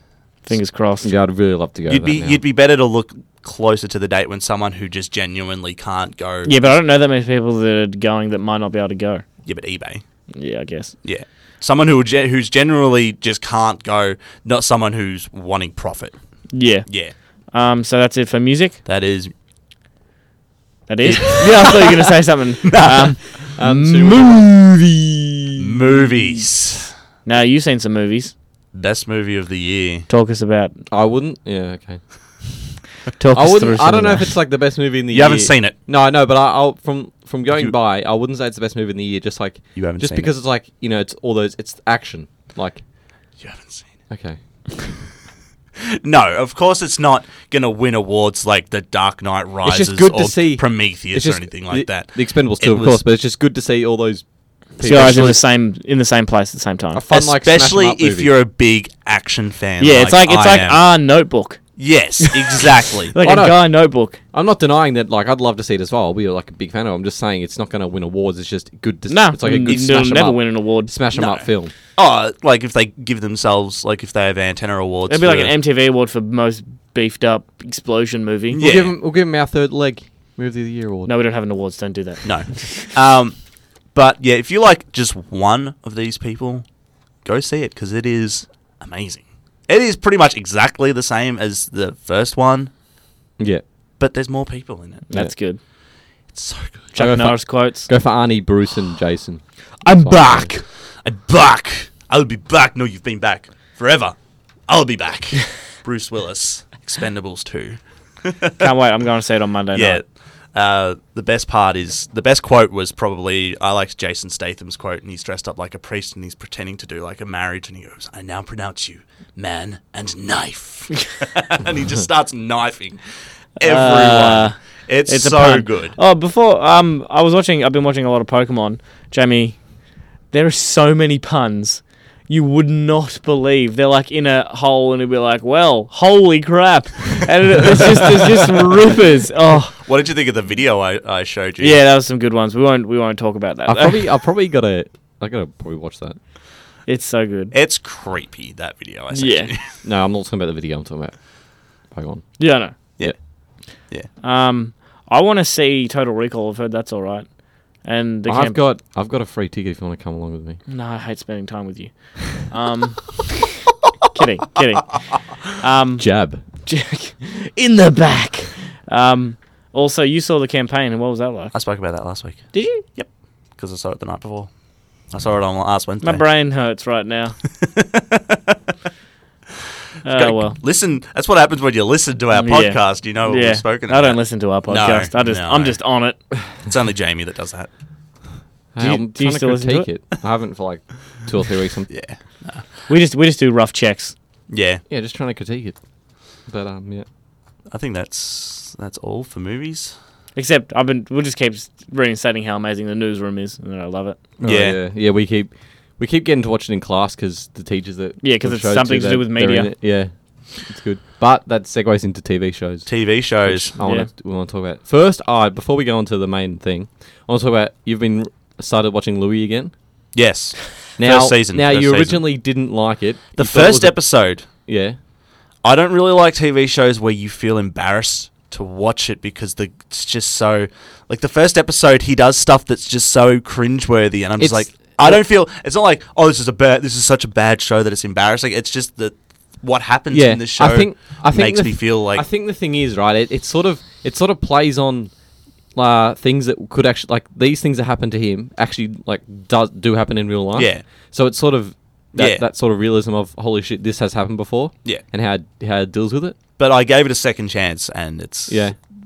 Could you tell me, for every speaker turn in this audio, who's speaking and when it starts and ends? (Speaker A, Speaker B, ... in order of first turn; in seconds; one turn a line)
Speaker A: 0.5-1.1
Speaker B: 1.0-2.4
Speaker C: 1.9-6.7
Speaker A: 6.5-9.2
Speaker C: 9.4-10.0
Speaker A: 10.3-10.9
Speaker C: 11.0-16.1
Speaker A: 16.5-16.9
Speaker C: 16.9-17.1
Speaker A: 17.5-18.8
Speaker C: 18.9-19.3
Speaker A: 20.9-25.1
Speaker C: 21.1-21.9
Speaker C: 22.6-23.3
Speaker B: 23.5-24.7
Speaker C: 25.6-26.9
Speaker A: 27.2-28.3
Speaker C: 28.7-30.1
Speaker A: 30.1-30.8
Speaker B: 30.9-32.0
Speaker A: 33.2-34.3
Speaker B: 33.3-42.8
Speaker C: 35.1-35.7
Speaker C: 39.8-40.3
Speaker C: 43.4-44.0
Speaker B: 44.1-44.4
Speaker C: 46.0-53.0
Speaker B: 49.6-55.4
Speaker A: 54.8-57.0
Speaker B: 56.9-58.3
Speaker C: 57.1-60.8
Speaker A: 59.8-61.6
Speaker C: 61.8-63.1
Speaker A: 62.2-62.6
Speaker A: 63.1-64.2
Speaker B: 63.2-63.7
Speaker B: 64.3-71.7
Speaker A: 69.1-70.9
Speaker C: 71.1-75.5
Speaker A: 75.1-78.6
Speaker C: 78.5-78.9
Speaker B: 78.6-81.1
Speaker A: 81.1-82.9
Speaker C: 82.2-83.4
Speaker C: 83.9-86.7
Speaker C: 87.2-92.7
Speaker B: 93.4-93.6
Speaker C: 94.0-95.1
Speaker A: 95.1-95.6
Speaker C: 96.3-97.0
Speaker A: 97.0-97.9
Speaker B: 97.0-100.5
Speaker A: 99.8-100.7
Speaker C: 101.0-104.2
Speaker C: 104.7-108.7
Speaker A: 108.6-110.0
Speaker C: 109.7-123.0
Speaker C: 123.6-126.0
Speaker A: 123.6-129.7
Speaker A: 130.3-139.8
Speaker C: 137.7-138.4
Speaker C: 139.6-141.8
Speaker A: 141.6-144.0
Speaker B: 143.7-146.2
Speaker A: 146.9-147.5
Speaker C: 147.5-149.8
Speaker A: 149.1-149.5
Speaker B: 149.8-151.2
Speaker B: 151.8-153.1
Speaker A: 152.4-152.8
Speaker A: 154.2-157.3
Speaker A: 157.8-158.6
Speaker B: 158.3-160.6
Speaker A: 160.7-163.5
Speaker A: 164.1-171.5
Speaker B: 166.0-166.4
Speaker C: 171.5-176.2
Speaker A: 172.5-172.8
Speaker A: 176.0-177.4
Speaker C: 177.8-178.6
Speaker A: 180.1-180.6
Speaker C: 180.1-185.8
Speaker A: 182.4-186.2
Speaker C: 186.6-187.7
Speaker B: 188.7-191.9
Speaker A: 188.8-189.9
Speaker C: 191.9-192.7
Speaker A: 192.9-194.2
Speaker C: 194.5-194.8
Speaker B: 194.9-195.8
Speaker B: 196.4-197.1
Speaker C: 197.7-199.9
Speaker A: 200.4-204.2
Speaker B: 204.4-212.9
Speaker C: 204.4-204.8
Speaker A: 208.2-209.7
Speaker C: 212.9-213.8
Speaker B: 213.4-219.7
Speaker A: 213.8-214.1
Speaker C: 220.2-222.3
Speaker B: 221.0-224.0
Speaker C: 223.4-224.5
Speaker B: 224.7-225.0
Speaker C: 225.6-242.2
Speaker B: 234.4-235.2
Speaker B: 240.1-245.1
Speaker B: 245.8-256.4
Speaker C: 250.6-250.8
Speaker C: 252.2-252.4
Speaker C: 256.6-258.8
Speaker B: 258.5-258.8